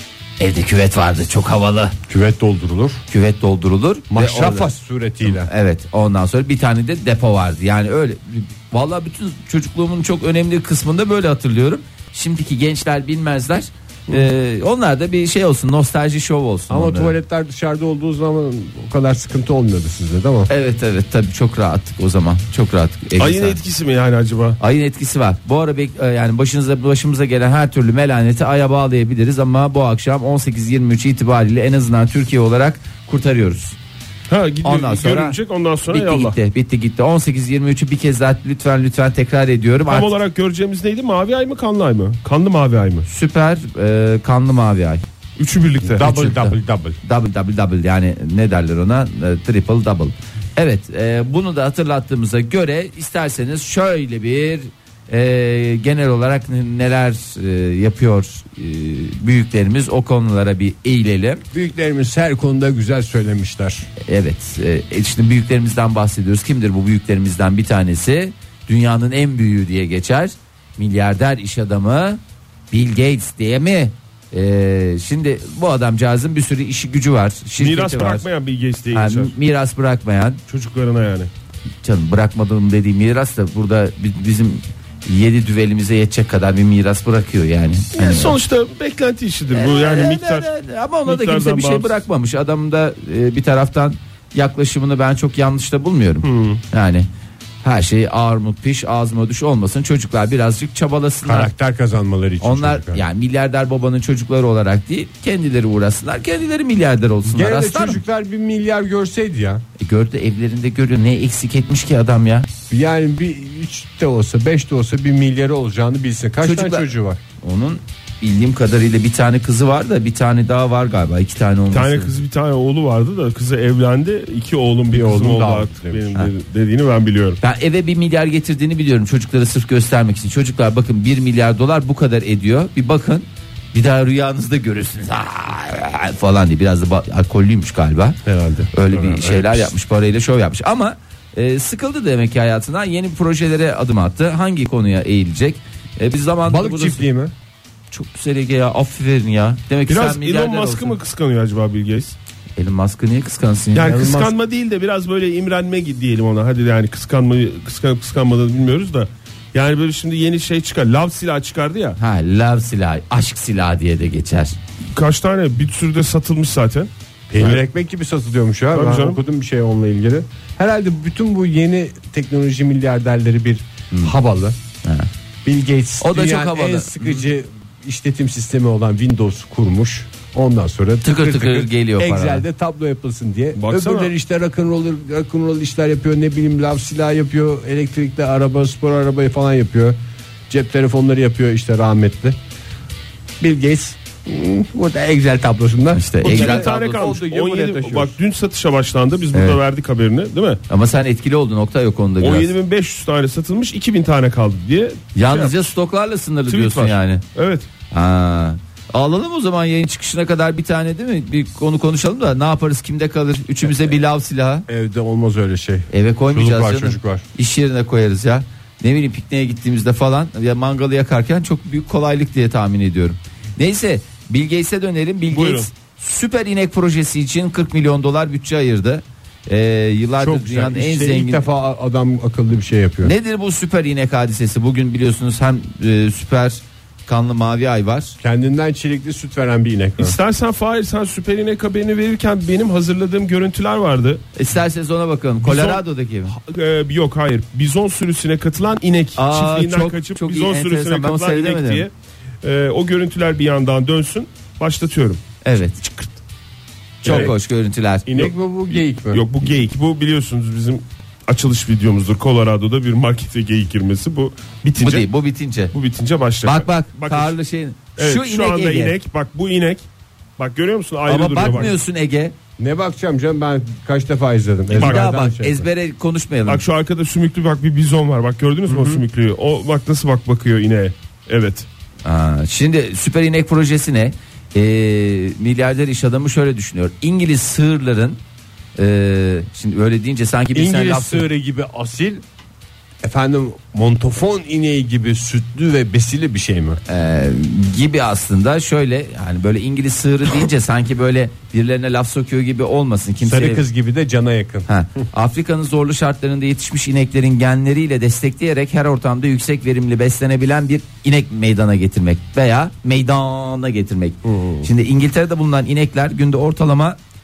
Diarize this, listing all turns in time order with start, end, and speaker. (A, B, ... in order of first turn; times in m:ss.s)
0:00.4-0:02.0 A
0:02.1-0:03.0 B
0:03.1-0:04.7 A
0:04.1-0:05.5 B
0:05.2-0:17.2 A
0:16.7-0:20.5 B
0:20.5-0:23.6 A
0:23.2-0:24.6 C
0:24.6-0:33.8 A
0:34.3-0:36.4 C
0:34.6-0:35.4 A
0:35.9-0:40.1 A
0:39.9-0:43.1 C
0:43.1-0:45.0 A
0:45.4-0:46.2 C
0:45.8-0:47.0 B
0:46.0-1:01.4 A
1:01.5-1:03.9 B
1:04.0-1:12.2 A
1:12.7-1:18.3 A
1:17.6-1:19.3 C
1:18.9-1:20.4 A
1:20.5-1:21.3 C
1:21.8-1:28.4 A
1:28.0-1:30.5 C
1:29.5-1:37.1 A
1:31.0-1:32.0 C
1:36.2-1:36.6 C
1:37.6-1:41.5 A
1:41.2-1:43.0 B
1:42.4-1:48.0 A
1:47.3-1:49.6 B
1:49.8-1:52.5 A
1:52.7-1:57.2 B
1:56.4-1:56.9 A
1:57.4-2:02.1 A
2:01.7-2:07.4 C
2:04.9-2:06.1 B
2:07.4-2:18.2 A
2:18.3-2:19.7 B
2:18.7-2:27.0 A
2:26.5-2:27.3 B
2:27.9-2:31.0 A
2:29.9-2:32.2 C
2:32.6-2:33.9 A
2:33.8-2:42.0 C
2:33.8-2:34.3 B
2:42.0-2:44.6 A
2:44.9-2:47.6 C
2:47.3-2:54.6 B
2:48.7-2:49.2 C
2:55.4-3:10.0 B
2:56.0-2:57.2 A
3:01.0-3:02.4 A
3:03.6-3:04.1 C
3:10.5-3:12.4 B
3:13.4-3:18.2 B
3:16.0-3:17.0 A
3:16.2-3:20.6 C
3:19.3-3:19.6 A
3:20.7-3:22.5 A
3:22.2-3:25.7 C
3:25.2-3:27.2 A
3:26.5-3:27.7 C
3:27.9-3:34.7 A
3:34.7-3:37.2 B
3:35.9-3:51.5 A
3:45.3-3:45.7 C
3:50.2-3:53.1 B
3:53.0-3:58.2 A
3:58.2-4:00.2 B
4:00.0-4:04.2 C
4:04.4-4:06.3 A
4:05.4-4:11.9 C
4:09.2-4:11.9 A
4:12.4-4:15.2 C
4:15.4-4:15.9 A
4:17.0-4:17.3 B
4:17.0-4:18.1 A
4:17.1-4:17.3 C
4:18.1-4:25.1 C
4:18.1-4:19.2 B
4:24.8-4:25.7 A
4:25.7-4:27.4 C
4:26.4-4:29.0 A
4:28.0-4:29.8 C
4:30.4-4:31.8 C
4:31.1-4:32.4 A
4:32.6-4:35.7 B
4:34.7-4:36.6 A
4:34.7-4:35.0 C
4:36.5-4:41.7 C
4:38.7-4:39.0 B
4:42.0-4:48.2 A
4:48.8-4:51.3 A
4:50.5-4:52.2 B
4:53.0-4:56.8 B
4:56.9-5:03.6 A
5:03.2-5:04.7 B
5:04.7-5:17.0 A